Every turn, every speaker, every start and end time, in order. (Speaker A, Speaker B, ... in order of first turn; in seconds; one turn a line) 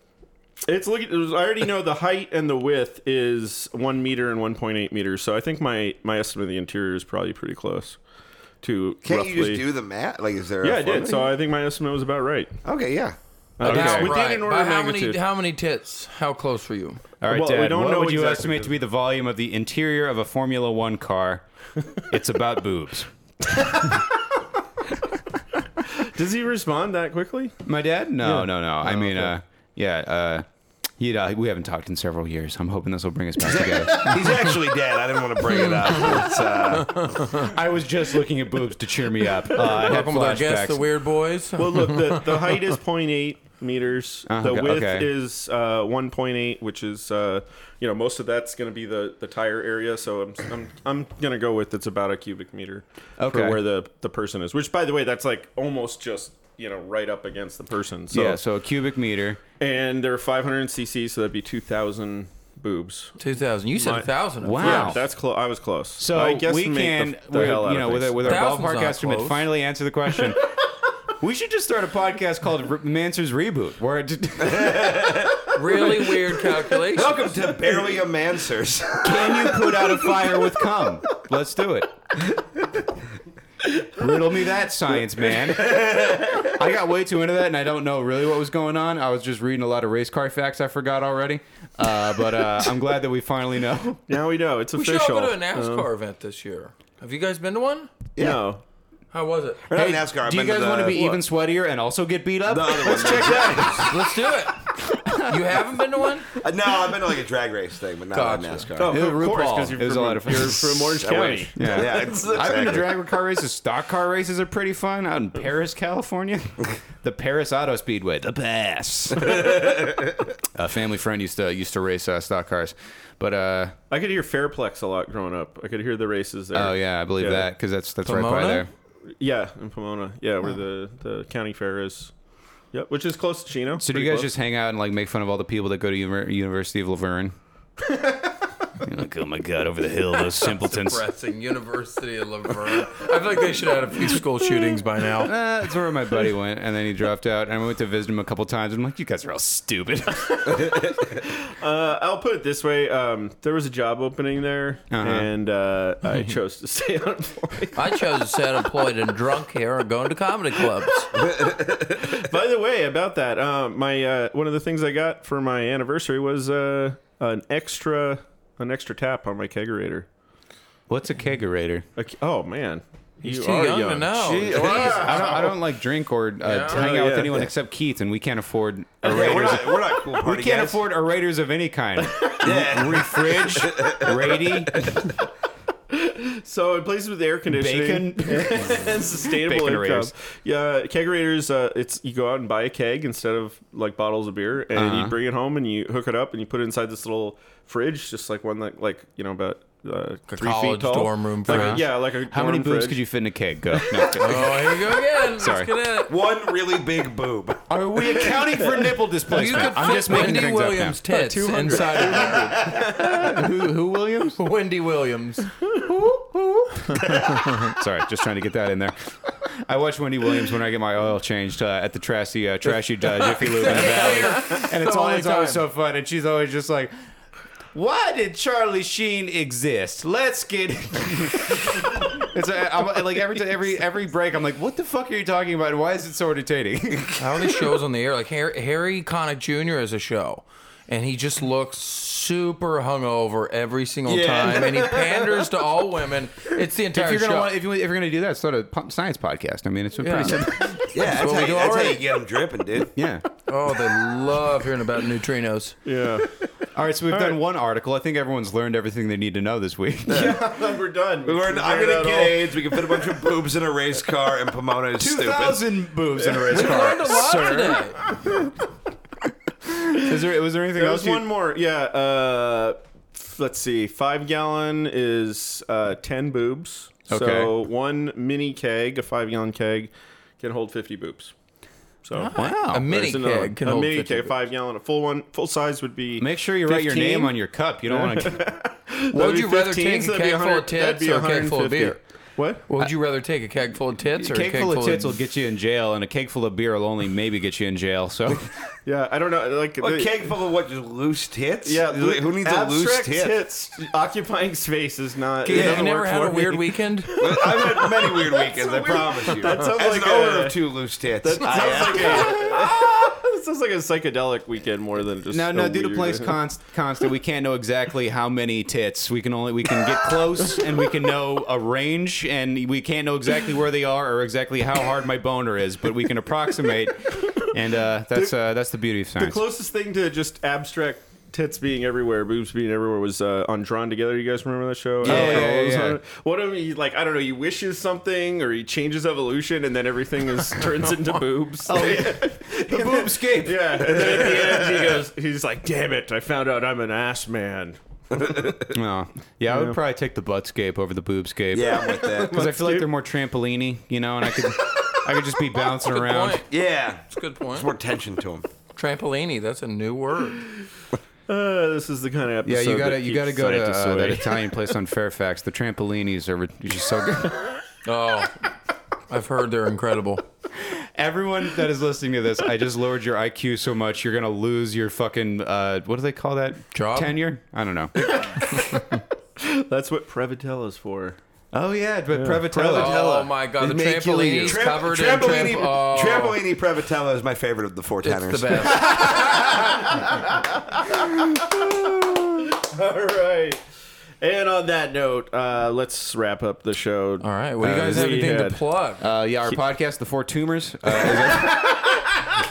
Speaker A: 0.6-8.0
Speaker A: 8.6-9.6
Speaker B: 9.0-11.3
Speaker A: 10.6-12.6
Speaker B: 12.6-13.2
Speaker A: 13.6-15.2
Speaker C: 13.6-17.0
Speaker D: 13.6-14.2
Speaker D: 17.2-21.4
Speaker A: 17.3-18.7
Speaker D: 21.9-23.8
Speaker A: 25.9-27.5
Speaker D: 27.6-30.4
Speaker A: 28.2-29.3
Speaker D: 31.0-34.3
Speaker B: 33.4-37.5
Speaker D: 37.3-40.8
Speaker C: 39.5-42.2
Speaker A: 41.6-58.4
Speaker D: 44.3-45.1
Speaker D: 53.2-53.6
Speaker D: 58.1-59.4
Speaker A: 59.6-63.2
Speaker C: 63.2-65.0
Speaker A: 63.8-68.4
Speaker D: 64.4-65.0
Speaker D: 66.0-70.5
Speaker C: 68.2-69.4
Speaker D: 71.2-75.3
Speaker B: 74.4-75.9
Speaker C: 75.5-77.3
Speaker B: 76.8-80.5
Speaker D: 79.0-82.0
Speaker B: 82.3-82.8
Speaker D: 83.8-94.0
Speaker B: 85.5-86.5
Speaker A: 94.1-95.9
Speaker C: 94.8-97.9
Speaker B: 98.2-98.4
Speaker A: 98.2-98.6
Speaker C: 99.1-99.7
Speaker B: 99.7-101.1
Speaker D: 99.7-104.0
Speaker A: 100.9-101.2
Speaker B: 102.5-103.9
Speaker C: 103.7-104.6
Speaker D: 104.8-105.6
Speaker C: 105.2-106.3
Speaker B: 106.4-109.0
Speaker C: 108.1-108.7
Speaker A: 108.8-112.5
Speaker D: 108.9-111.0
Speaker B: 111.0-112.9
Speaker D: 111.5-119.9
Speaker B: 119.3-119.6
Speaker D: 120.5-123.7
Speaker A: 123.9-127.5
Speaker D: 126.5-128.7
Speaker C: 128.0-128.7
Speaker A: 129.2-132.1
Speaker A: 132.7-134.3
Speaker D: 133.8-137.3
Speaker D: 138.8-141.0
Speaker C: 140.6-145.3
Speaker D: 145.2-150.9
Speaker A: 150.7-158.0
Speaker D: 154.9-155.3
Speaker C: 157.7-161.2
Speaker B: 161.2-162.0
Speaker A: 161.9-170.1
Speaker D: 170.9-171.8
Speaker A: 171.9-175.5
Speaker C: 173.2-175.3
Speaker B: 174.5-175.0
Speaker D: 174.6-185.0
Speaker C: 176.4-176.8
Speaker A: 176.7-177.5
Speaker B: 179.0-180.8
Speaker B: 182.4-184.9
Speaker A: 185.9-203.0
Speaker D: 187.5-190.1
Speaker D: 194.7-195.2
Speaker C: 200.3-201.8
Speaker D: 201.4-205.7
Speaker C: 204.1-206.1
Speaker B: 206.1-208.3
Speaker D: 207.7-211.0
Speaker C: 209.2-212.7
Speaker A: 211.1-213.1
Speaker D: 212.8-214.4
Speaker C: 214.4-215.5
Speaker D: 215.8-218.9
Speaker D: 219.4-226.9
Speaker C: 223.0-225.7
Speaker D: 227.7-237.6
Speaker C: 237.2-247.5
Speaker B: 244.1-245.3
Speaker D: 246.9-250.9
Speaker C: 250.0-252.0
Speaker B: 250.9-252.9
Speaker D: 252.9-253.2
Speaker C: 253.5-255.8
Speaker A: 255.8-256.3
Speaker D: 256.7-260.4
Speaker A: 257.1-257.4
Speaker A: 260.1-263.1
Speaker B: 260.1-260.4
Speaker B: 261.2-265.6
Speaker D: 265.0-268.2
Speaker C: 266.5-268.0
Speaker D: 269.6-271.2
Speaker A: 270.8-281.3
Speaker D: 277.1-277.5
Speaker A: 282.0-292.6
Speaker C: 282.1-284.3
Speaker D: 282.3-282.9
Speaker D: 286.2-288.4
Speaker C: 289.1-292.0
Speaker C: 292.6-295.1
Speaker D: 294.2-298.5
Speaker A: 298.9-300.3
Speaker B: 299.8-303.4
Speaker A: 301.6-310.6
Speaker C: 305.4-307.1
Speaker B: 305.5-305.8
Speaker B: 307.2-312.6
Speaker A: 311.2-316.4
Speaker D: 315.3-329.4
Speaker A: 329.2-347.8
Speaker D: 335.0-336.0
Speaker D: 341.6-344.1
Speaker B: 343.8-345.0
Speaker B: 348.1-348.7
Speaker D: 348.7-356.4
Speaker A: 349.5-349.8
Speaker B: 351.5-352.5
Speaker A: 351.8-352.9
Speaker C: 355.7-357.7
Speaker B: 356.5-358.4
Speaker C: 358.8-360.5
Speaker A: 361.3-364.4
Speaker D: 362.4-367.4
Speaker C: 367.8-368.4
Speaker C: 369.1-370.2
Speaker D: 370.6-378.4
Speaker C: 376.7-377.2
Speaker A: 379.4-381.2
Speaker D: 381.5-383.4
Speaker A: 382.1-382.9
Speaker C: 382.6-386.4
Speaker B: 383.6-389.4
Speaker D: 383.9-384.6
Speaker C: 388.0-389.6
Speaker A: 390.7-393.6
Speaker A: 394.2-398.6
Speaker C: 397.2-399.1
Speaker D: 397.6-398.2
Speaker D: 399.0-402.2